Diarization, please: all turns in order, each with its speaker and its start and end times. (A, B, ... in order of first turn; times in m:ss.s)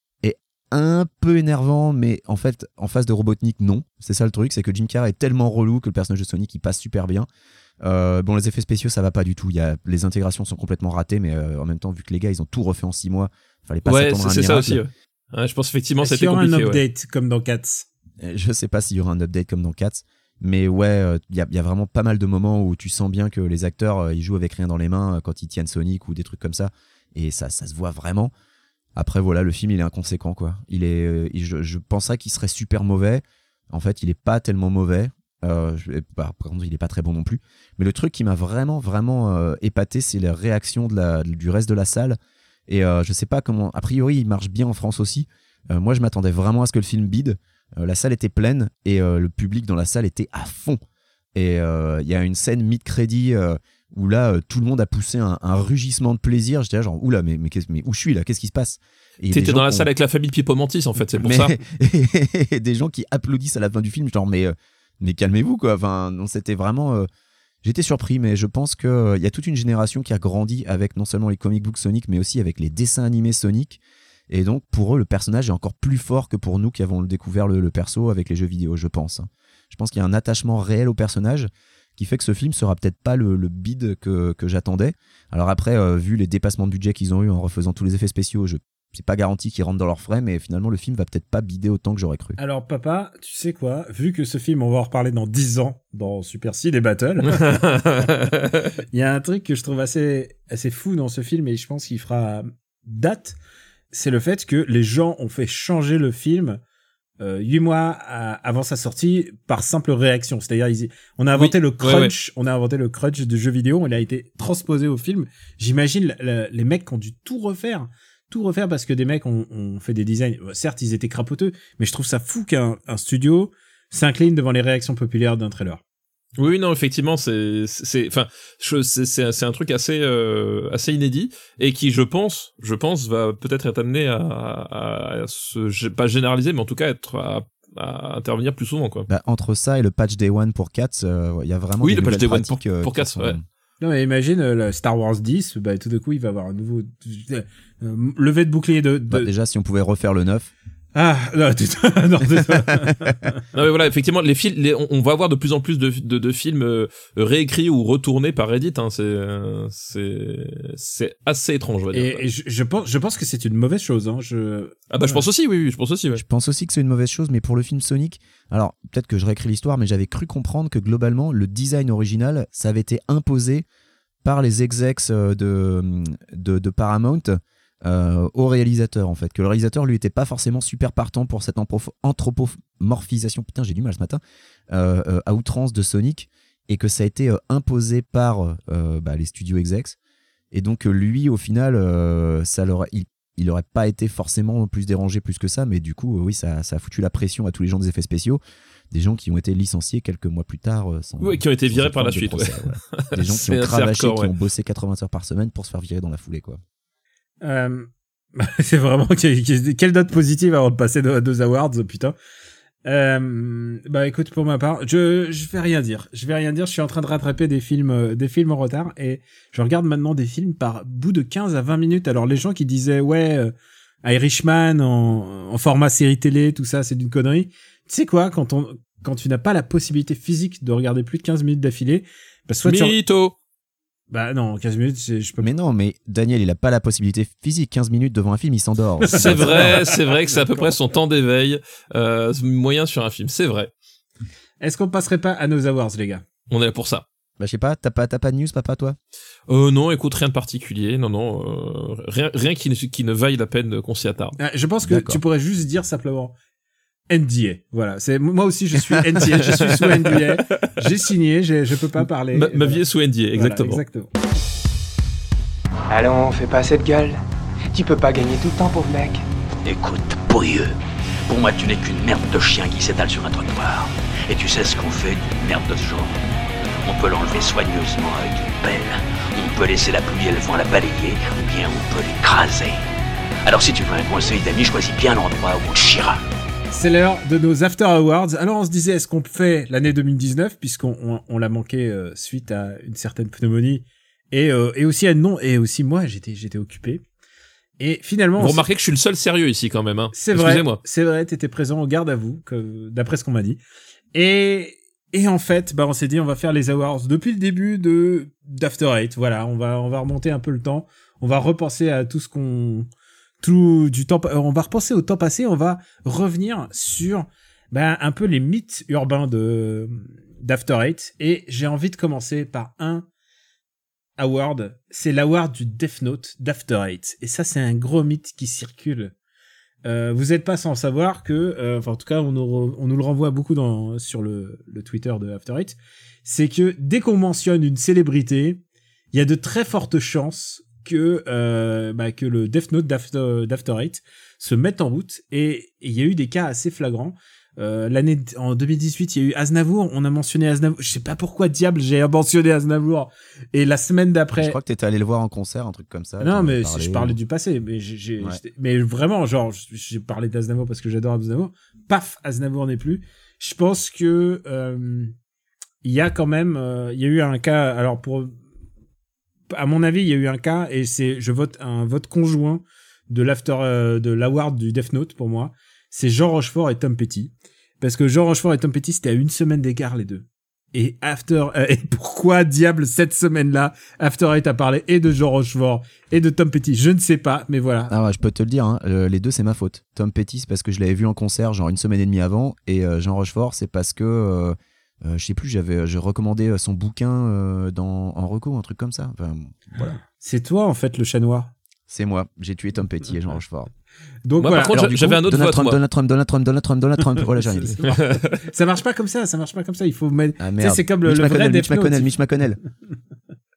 0:00.2-0:07.3 A
0:07.8-0:14.8 A
0:13.8-0:16.8 B
0:16.0-0:17.8 C
0:18.2-0:28.3 A
0:29.0-0:50.8 A
0:51.3-0:59.9 A
0:59.3-1:01.6 B
1:01.2-1:07.1 A
1:07.6-1:32.4 A
1:32.4-1:37.6 C
1:37.3-1:38.6 B
1:38.9-1:43.4 C
1:43.9-1:46.6 C
1:47.2-2:05.8 C
1:51.3-1:52.1 B
2:06.4-2:19.1 B
2:19.1-2:23.4 A
2:21.8-2:23.4 B
2:23.8-2:29.3 C
2:29.1-2:30.5 A
2:30.9-2:33.4 C
2:33.5-2:42.2 B
2:41.9-2:45.2 C
2:44.9-2:46.2 B
2:46.1-2:53.6 A
2:54.2-3:10.0 A
3:10.5-3:18.4 A
3:18.9-3:26.6 A
3:21.2-3:24.3 B
3:27.4-3:32.1 C
3:32.8-3:43.5 C
3:44.0-3:53.0 C
3:52.6-3:53.3 B
3:54.1-3:55.5 C
3:55.4-3:59.8 A
3:59.0-4:00.6 C
3:59.1-4:03.7 B
4:04.6-4:06.2 C
4:06.5-4:07.0 B
4:07.4-4:09.0 A
4:09.5-4:14.4 B
4:14.4-4:16.3 C
4:14.8-4:15.2 A
4:17.1-4:22.8 C
4:19.4-4:20.6 B
4:22.3-4:23.8 B
4:23.3-4:24.1 C
4:25.9-4:27.2 D
4:27.7-4:29.2 D
4:29.6-4:30.8 E
4:31.3-4:42.8 E
4:43.4-4:46.2 E
4:46.7-4:57.0 C
4:57.8-4:58.6 C
4:58.4-5:00.8 B
5:00.1-5:03.6 C
5:04.1-5:12.9 C
5:13.4-5:23.1 C
5:24.2-5:29.1 C
5:29.8-5:38.6 C
5:39.1-5:54.6 C
5:54.4-5:57.2 A
5:56.2-6:05.1 C
6:05.8-6:08.3 C
6:09.5-6:27.9 C
6:27.9-6:40.0 A
6:39.8-6:41.5 C
6:41.9-6:43.7 A
6:44.2-6:44.8 C
6:44.4-6:45.8 B
6:44.7-6:47.8 A
6:47.4-6:52.1 C
6:47.8-6:48.4 B
6:50.4-6:52.6 A